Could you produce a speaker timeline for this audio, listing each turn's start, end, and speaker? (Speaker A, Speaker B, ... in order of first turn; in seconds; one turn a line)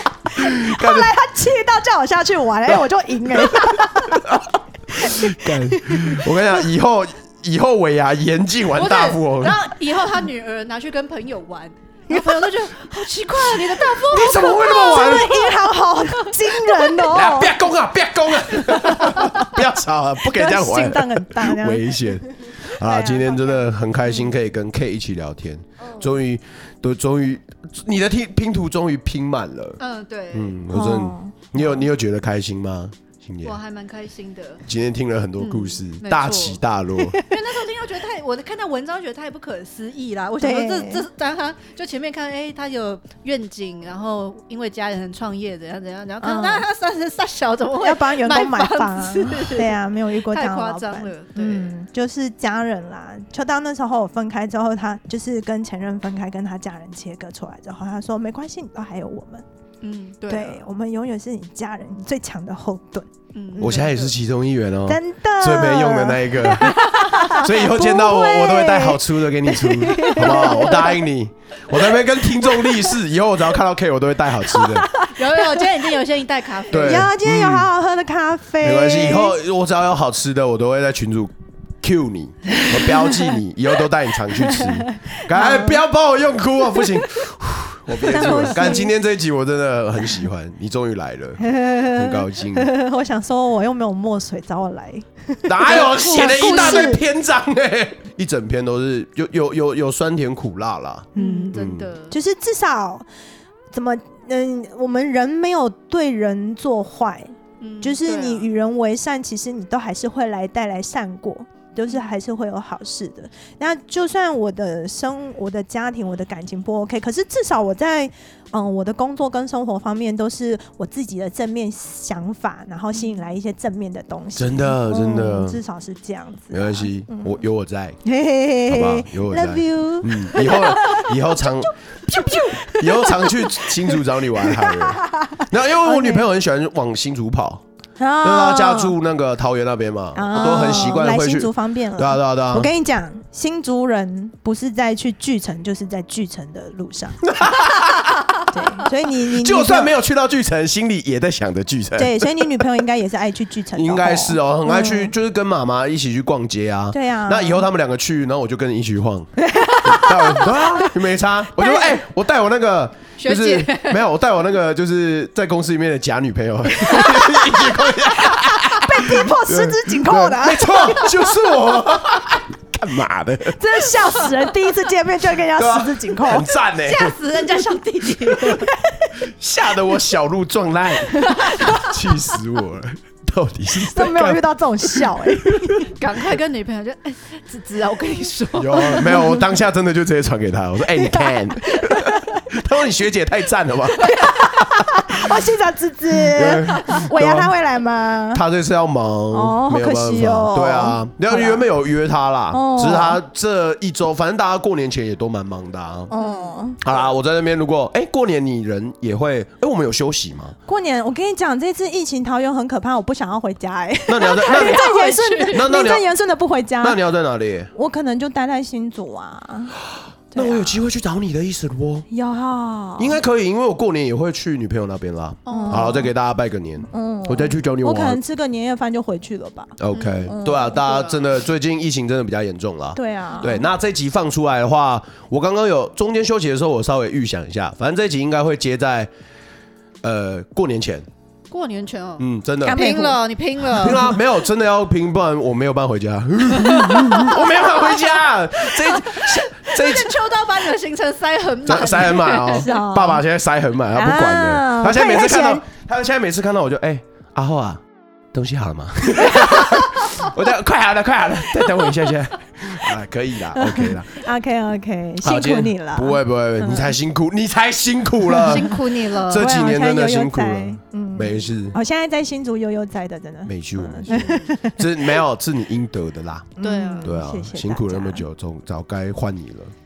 Speaker A: 0.3-4.4
Speaker B: 0.3-1.1
Speaker B: 4.1-9.6
Speaker A: 5.0-6.2
Speaker C: 8.7-15.6
Speaker A: 12.1-12.5
Speaker B: 14.0-15.5
Speaker A: 14.5-17.6
Speaker C: 16.2-16.7
Speaker B: 17.1-29.8
Speaker A: 18.7-19.4
Speaker A: 20.2-23.5
Speaker C: 29.8-30.6
Speaker B: 30.3-33.6
Speaker A: 30.7-31.8
Speaker C: 33.4-34.6
Speaker B: 34.6-37.2
Speaker C: 35.4-36.6
Speaker C: 37.2-51.7
Speaker A: 40.4-41.0
Speaker A: 46.2-46.6
Speaker A: 47.8-59.4
Speaker C: 59.8-60.6
Speaker A: 60.3-64.0
Speaker C: 63.3-64.1
Speaker B: 63.6-74.9
Speaker A: 64.9-71.0
Speaker C: 66.8-67.4
Speaker C: 70.2-70.8
Speaker A: 72.5-72.9
Speaker A: 74.5-75.6
Speaker C: 75.0-77.1
Speaker B: 76.7-77.7
Speaker A: 76.7-79.3
Speaker B: 78.6-92.7
Speaker A: 82.6-83.3
Speaker A: 84.5-85.8
Speaker A: 88.0-88.9
Speaker A: 91.4-97.0
Speaker B: 95.4-101.9
Speaker C: 95.7-97.0
Speaker A: 101.1-101.5
Speaker C: 101.2-102.2
Speaker A: 102.1-103.0
Speaker A: 103.7-127.4
Speaker C: 107.6-108.5
Speaker C: 122.9-123.2
Speaker B: 124.4-125.6
Speaker B: 126.5-128.0
Speaker A: 128.0-136.3
Speaker B: 128.7-131.7
Speaker B: 132.2-137.6
Speaker A: 138.0-138.9
Speaker B: 138.2-142.7
Speaker A: 140.1-147.3
Speaker C: 140.3-141.0
Speaker B: 147.2-148.3
Speaker A: 148.5-149.9
Speaker B: 149.1-152.6
Speaker A: 151.9-155.1
Speaker B: 153.7-173.6
Speaker A: 156.9-157.7
Speaker A: 159.4-160.8
Speaker A: 161.5-161.9
Speaker C: 163.2-164.1
Speaker A: 167.0-171.3
Speaker A: 173.5-176.4
Speaker B: 175.5-177.2
Speaker C: 176.7-178.7
Speaker A: 178.4-179.1
Speaker B: 179.2-185.9
Speaker C: 181.3-181.9
Speaker A: 183.8-185.9
Speaker C: 185.9-189.2
Speaker B: 188.5-195.0
Speaker A: 188.9-189.4
Speaker A: 190.9-191.3
Speaker A: 191.9-192.4
Speaker A: 194.3-198.4
Speaker B: 196.3-197.5
Speaker B: 198.3-206.1
Speaker A: 199.3-201.7
Speaker A: 202.5-203.2
Speaker A: 206.1-206.8
Speaker C: 206.2-206.6
Speaker B: 206.8-210.6
Speaker A: 210.7-217.0
Speaker B: 214.1-214.8
Speaker C: 214.3-215.7
Speaker B: 215.5-216.1
Speaker B: 216.8-217.7
Speaker A: 217.7-219.8
Speaker A: 220.3-220.8
Speaker B: 220.3-222.1
Speaker A: 222.1-223.2
Speaker B: 223.0-228.2
Speaker C: 225.4-226.0
Speaker A: 225.5-226.1
Speaker A: 226.9-230.8
Speaker B: 229.8-239.1
Speaker C: 229.9-231.3
Speaker A: 232.9-233.7
Speaker B: 240.0-241.1
Speaker C: 241.5-244.1
Speaker B: 242.2-243.0
Speaker A: 242.6-243.2
Speaker A: 243.7-244.1
Speaker B: 243.8-250.1
Speaker C: 246.6-248.1
Speaker C: 248.6-252.8
Speaker B: 251.7-257.8
Speaker A: 252.4-253.2
Speaker A: 253.9-255.7
Speaker B: 258.3-264.2
Speaker A: 263.5-266.9
Speaker B: 265.2-271.8
Speaker A: 268.3-268.7
Speaker C: 268.4-269.5
Speaker A: 269.3-275.2
Speaker B: 273.4-279.7
Speaker C: 274.1-274.4
Speaker A: 276.6-278.2
Speaker C: 276.6-277.1